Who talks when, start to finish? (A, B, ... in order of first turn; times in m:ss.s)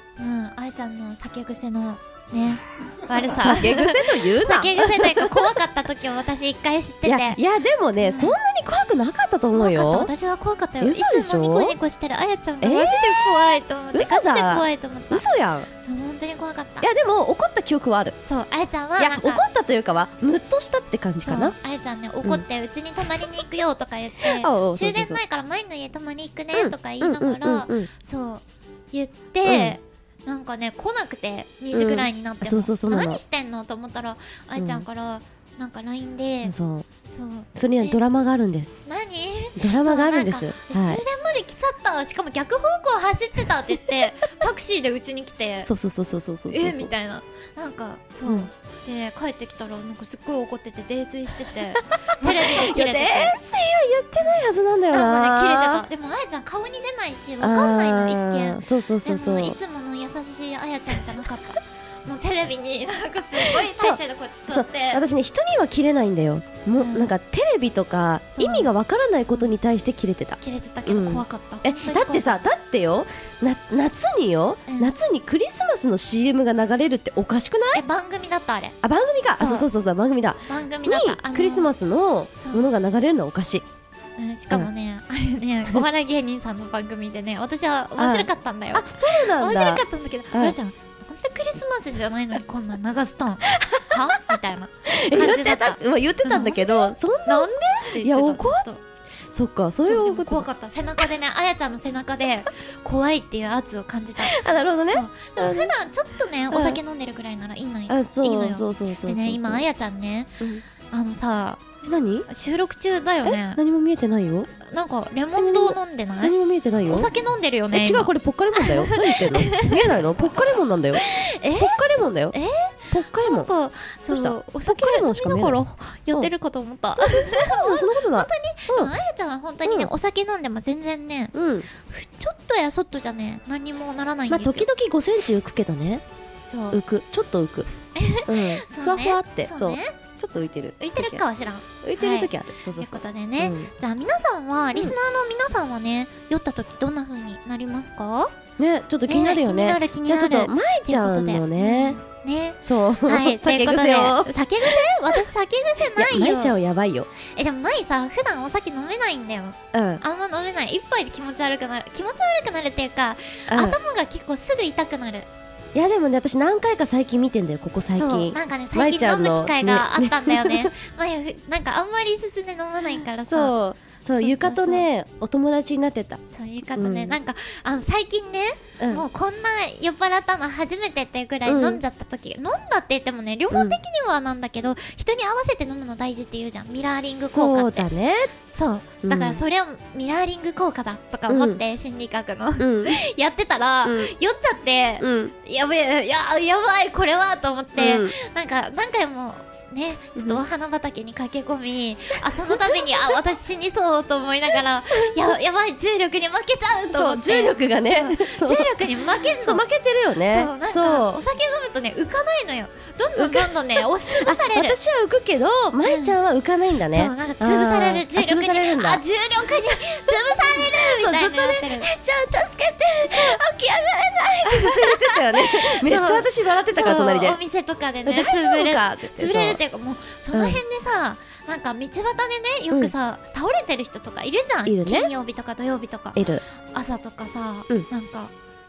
0:00.2-0:07.4 A
0:03.2-0:05.5 B
0:07.0-0:10.1 B
0:08.0-0:08.4 A
0:09.5-0:15.2 A
0:10.8-0:11.8 B
0:12.6-0:13.2 B
0:13.9-0:15.7 B
0:15.8-0:16.9 A
0:16.8-0:18.2 B
0:18.2-0:19.4 A
0:19.0-0:21.6 B
0:21.2-0:36.5 A
0:24.2-0:25.2 B
0:26.5-0:27.9 B
0:29.4-0:29.8 B
0:31.7-0:33.2 B
0:34.6-0:34.8 B
0:36.4-0:36.9 B
0:37.0-0:38.0 A
0:37.5-0:38.8 B
0:38.8-0:45.7 A
0:39.6-0:41.0 B
0:45.6-0:46.9 B
0:46.5-0:53.4 A
0:52.2-0:55.8 B
0:54.9-1:05.0 A
0:57.4-0:59.6 B
1:03.4-1:17.8 B
1:06.8-1:07.1 A
1:08.3-1:08.7 A
1:09.3-1:09.5 A
1:10.4-1:12.4 A
1:14.7-1:14.9 A
1:17.7-1:18.7 A
1:18.8-1:23.6 B
1:19.4-1:19.7 A
1:20.5-1:21.7 A
1:22.3-1:22.7 A
1:24.2-1:38.8 A
1:28.0-1:30.6 B
1:33.5-1:34.3 B
1:34.9-1:40.5 B
1:39.8-1:50.3 A
1:44.2-1:45.7 B
1:46.5-1:46.8 B
1:47.9-1:49.6 B
1:50.9-1:51.6 A
1:51.8-1:52.3 B
1:52.3-1:53.6 A
1:53.2-1:54.5 B
1:54.6-1:56.3 A
1:55.4-1:57.1 B
1:56.9-1:59.8 A
1:57.7-2:01.0 B
2:01.0-2:01.8 A
2:01.6-2:02.4 B
2:02.3-2:14.7 A
2:02.9-2:03.5 B
2:04.1-2:05.6 B
2:07.0-2:08.9 B
2:09.6-2:09.9 B
2:11.3-2:11.7 B
2:14.3-2:16.0 B
2:16.4-2:16.8 A
2:16.7-2:17.7 B
2:17.9-2:19.9 A
2:18.2-2:21.2 B
2:20.8-2:28.3 A
2:21.8-2:23.7 B
2:28.6-2:32.0 B
2:29.1-2:36.6 A
2:32.6-2:35.2 B
2:36.0-2:37.1 B
2:37.2-2:45.3 A
2:39.7-2:40.0 B
2:43.5-2:43.8 B
2:45.7-2:50.7 B
2:47.9-2:53.6 A
2:53.3-2:56.2 B
2:54.2-2:54.9 A
2:56.3-3:07.9 A
2:56.8-2:57.2 B
2:58.8-2:59.0 B
3:01.4-3:01.8 B
3:03.5-3:03.8 B
3:07.1-3:08.3 B
3:08.5-3:29.6 A
3:09.0-3:09.4 B
3:11.3-3:11.6 B
3:12.6-3:13.0 B
3:13.8-3:14.1 B
3:15.0-3:15.3 B
3:17.8-3:18.1 B
3:20.2-3:20.4 B
3:22.5-3:23.0 B
3:26.9-3:31.2 B
3:30.3-3:34.8 A
3:33.2-3:39.0 B
3:35.8-3:36.2 A
3:36.9-3:41.9 A
3:39.7-3:47.4 B
3:43.0-3:43.4 A
3:44.5-3:58.3 A
3:48.0-3:49.6 B
3:50.3-3:50.6 B
3:54.6-3:55.1 B
3:56.1-3:56.4 B